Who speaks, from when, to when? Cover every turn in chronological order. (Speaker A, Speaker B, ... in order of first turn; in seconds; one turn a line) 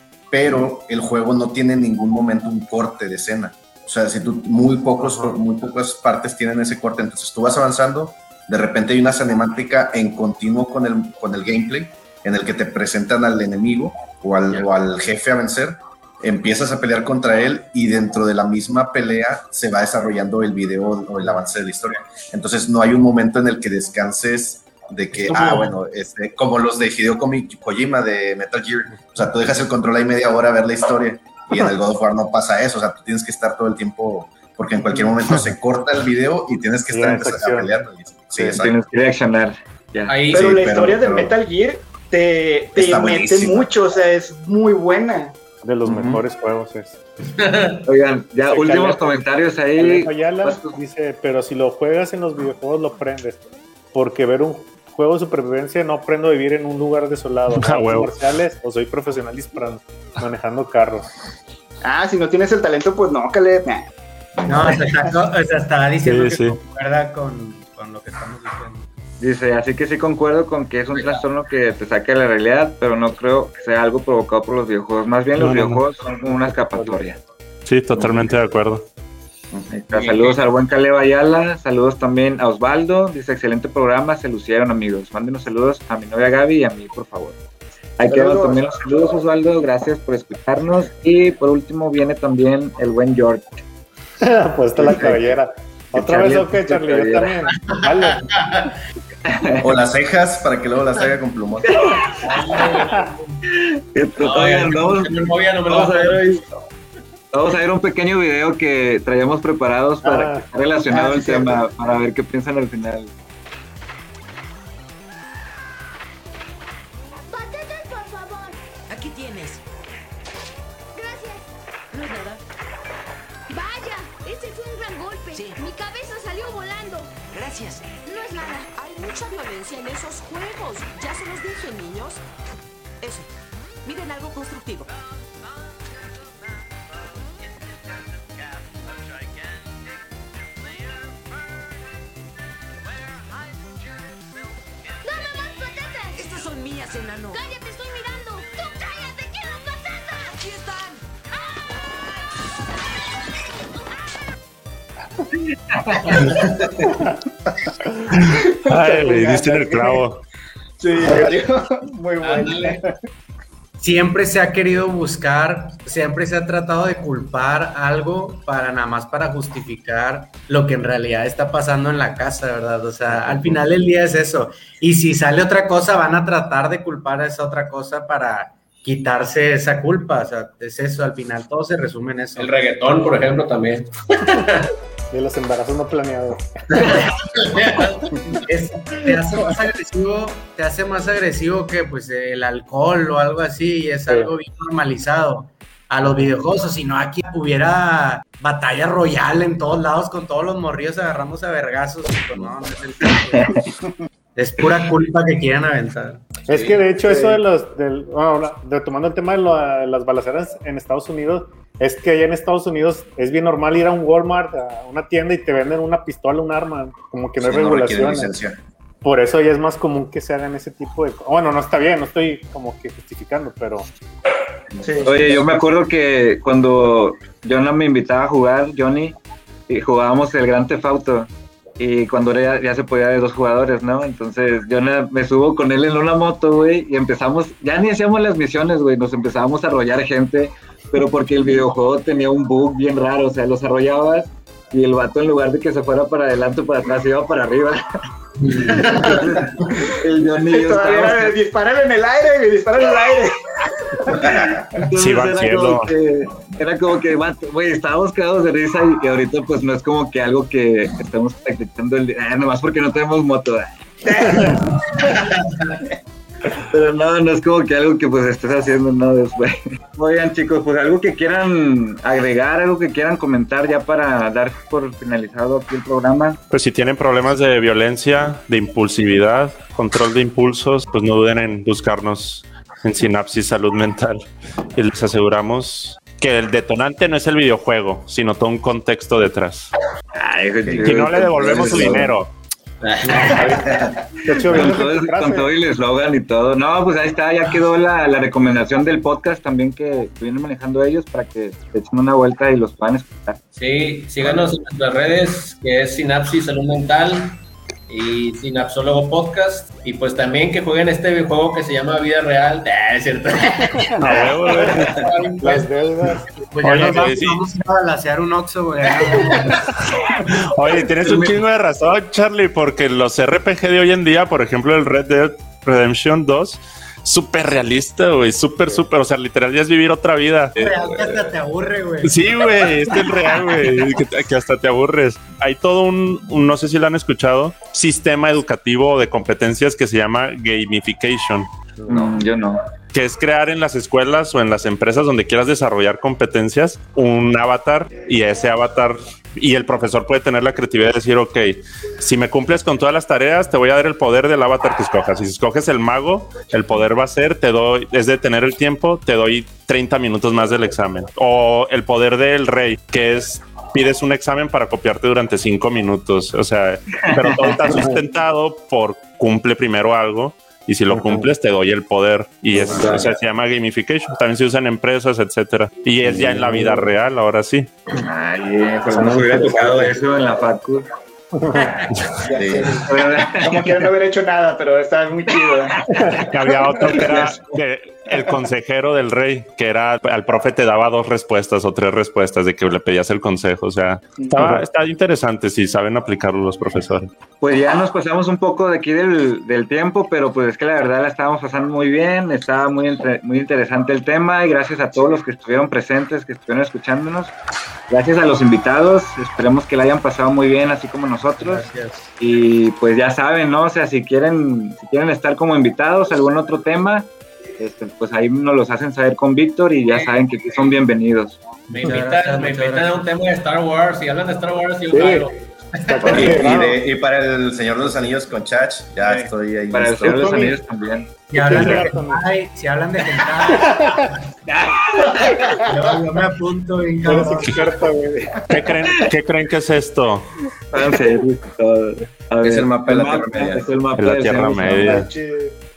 Speaker A: 0.3-38.8
Speaker B: 5.0-5.3
Speaker C: 25.1-25.7
Speaker B: 36.9-37.8
Speaker D: 38.4-40.2
Speaker C: 40.1-40.6
Speaker E: 40.3-45.4
Speaker A: 40.3-41.4
Speaker A: 42.8-43.7
Speaker B: 45.6-47.0
Speaker D: 45.9-46.2
Speaker C: 47.3-47.8
Speaker D: 47.9-50.8
Speaker B: 48.4-49.1
Speaker B: 49.7-61.1
Speaker F: 57.6-58.1
Speaker E: 61.8-63.9
Speaker G: 64.5-68.9
Speaker F: 66.0-66.6
Speaker D: 69.2-77.2
Speaker C: 70.9-71.2
Speaker F: 75.4-75.8
Speaker B: 76.2-77.1
Speaker F: 77.7-78.8
Speaker D: 79.7-87.4
Speaker C: 79.9-80.4
Speaker D: 88.0-93.6
Speaker E: 88.1-88.6
Speaker B: 94.2-98.3
Speaker D: 94.8-95.4
Speaker D: 95.9-97.4
Speaker C: 97.6-98.7
Speaker D: 99.2-99.7
Speaker A: 99.6-101.9
Speaker D: 101.7-102.7
Speaker C: 102.0-103.4
Speaker B: 102.7-103.1
Speaker D: 103.5-105.1
Speaker C: 104.2-106.3
Speaker D: 105.7-106.5
Speaker D: 107.3-113.1
Speaker B: 110.0-110.5
Speaker E: 110.9-111.6
Speaker H: 117.3-119.5
Speaker H: 121.0-121.4
Speaker H: 121.9-122.3
Speaker H: 123.5-132.2
Speaker H: 133.9-134.8
Speaker H: 145.0-150.9
Speaker D: 155.7-156.2
Speaker F: 158.1-160.2
Speaker E: 158.5-160.0
Speaker E: 160.8-162.9
Speaker C: 162.2-162.8
Speaker G: 163.8-182.5
Speaker C: 182.4-184.7
Speaker B: 185.1-186.9
Speaker C: 186.8-188.4
Speaker G: 188.4-203.5
Speaker D: 203.3-203.6
Speaker G: 204.4-206.4
Speaker B: 206.5-218.3
Speaker C: 206.5-206.8
Speaker G: 207.1-207.3
Speaker A: 217.4-218.6
Speaker B: 219.0-223.9
Speaker E: 224.8-225.6
Speaker D: 225.0-247.8
Speaker C: 248.4-249.2
Speaker D: 248.5-251.4
Speaker E: 248.7-249.4
Speaker E: 250.5-254.9
Speaker A: 254.2-254.6
Speaker D: 254.8-264.6
Speaker F: 254.9-255.9
Speaker E: 264.1-264.6
Speaker D: 266.5-276.4
Speaker F: 276.5-289.7
Speaker D: 290.2-292.1
Speaker A: 290.6-292.0
Speaker F: 290.8-292.3
Speaker B: 291.5-292.0
Speaker C: 292.8-293.6
Speaker B: 293.0-295.5
Speaker D: 294.5-303.4
Speaker C: 303.6-317.1
Speaker F: 314.0-315.1
Speaker B: 315.4-316.3
Speaker F: 316.6-317.4
Speaker G: 316.7-319.6
Speaker F: 319.7-331.3
Speaker D: 321.0-321.4
Speaker G: 330.6-332.3
Speaker F: 332.0-341.5
Speaker B: 341.8-342.2
Speaker D: 341.9-342.6
Speaker F: 342.9-377.7
Speaker D: 366.9-367.7
Speaker B: 367.7-368.0
Speaker B: 370.9-371.3
Speaker B: 372.5-373.1
Speaker B: 376.0-376.9
Speaker D: 377.9-380.9
Speaker B: 378.9-380.0
Speaker B: 381.3-381.7
Speaker F: 381.9-382.2
Speaker E: 382.2-382.9
Speaker A: 382.4-382.9
Speaker D: 382.7-383.8
Speaker E: 383.4-385.8
Speaker D: 385.7-387.4
Speaker B: 385.9-386.2
Speaker F: 386.3-397.1
Speaker B: 394.3-394.6
Speaker D: 397.4-407.4
Speaker D: 407.9-411.7
Speaker G: 411.3-412.0
Speaker D: 412.2-421.4
Speaker C: 419.9-420.7
Speaker G: 421.7-423.1
Speaker C: 421.7-426.5
Speaker B: 424.9-425.3
Speaker B: 425.9-426.8
Speaker A: 426.1-430.6
Speaker D: 429.7-431.2
Speaker G: 431.3-433.9
Speaker B: 431.4-432.2
Speaker B: 433.6-434.0
Speaker G: 434.5-437.7
Speaker E: 435.2-435.5
Speaker B: 437.0-438.5
Speaker F: 438.5-440.3
Speaker D: 440.7-445.0
Speaker A: 442.4-443.7
Speaker F: 444.0-445.1
Speaker E: 444.6-445.6